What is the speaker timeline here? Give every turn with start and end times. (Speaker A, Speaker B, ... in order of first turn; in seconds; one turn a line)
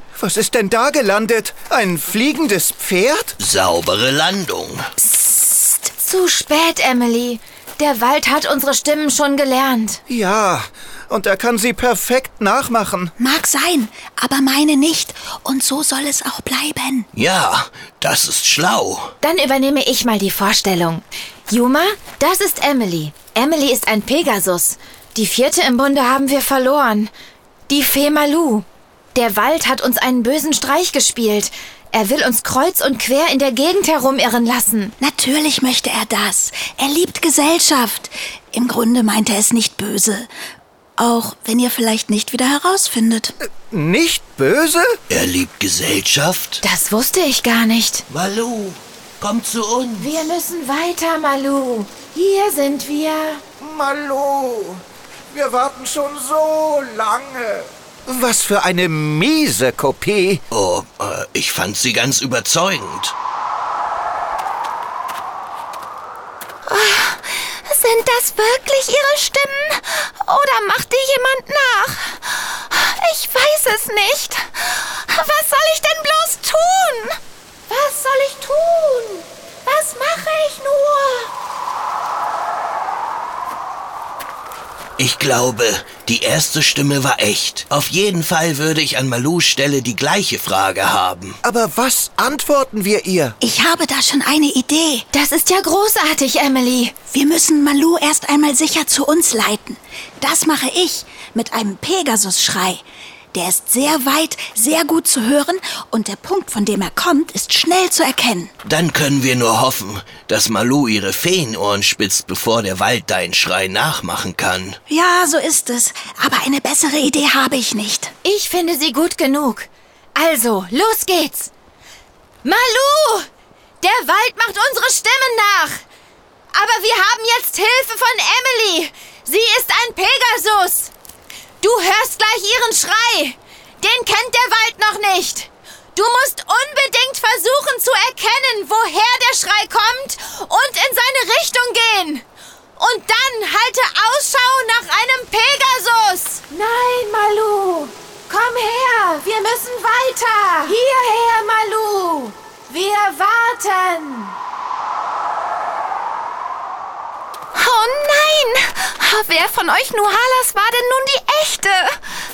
Speaker A: 0.1-3.3
Speaker B: 3.4-4.9
Speaker C: 5.1-9.8
Speaker D: 6.0-10.0
Speaker A: 10.1-13.1
Speaker E: 13.2-17.1
Speaker B: 17.1-19.1
Speaker C: 19.2-22.0
Speaker D: 19.4-21.0
Speaker D: 21.5-27.1
Speaker C: 23.8-24.5
Speaker C: 25.7-27.0
Speaker D: 27.7-28.6
Speaker D: 29.1-34.9
Speaker E: 35.0-40.3
Speaker E: 41.0-43.3
Speaker A: 43.7-45.0
Speaker B: 45.1-46.6
Speaker D: 46.8-48.0
Speaker C: 47.4-47.9
Speaker B: 48.1-50.2
Speaker C: 50.0-50.5
Speaker D: 50.4-53.4
Speaker A: 53.6-60.4
Speaker B: 60.5-63.1
Speaker C: 66.7-77.2
Speaker C: 77.7-81.3
Speaker B: 85.0-91.4
Speaker A: 91.4-93.3
Speaker E: 93.4-95.0
Speaker D: 95.2-96.9
Speaker E: 97.1-102.8
Speaker E: 103.3-108.5
Speaker B: 108.6-114.8
Speaker E: 114.9-118.1
Speaker D: 118.2-121.5
Speaker D: 122.4-123.2
Speaker D: 123.8-125.8
Speaker D: 126.5-130.9
Speaker D: 131.6-142.2
Speaker C: 140.3-140.8
Speaker D: 142.8-154.3
Speaker C: 143.6-145.0
Speaker C: 145.6-145.8
Speaker C: 149.5-149.9
Speaker C: 157.5-162.0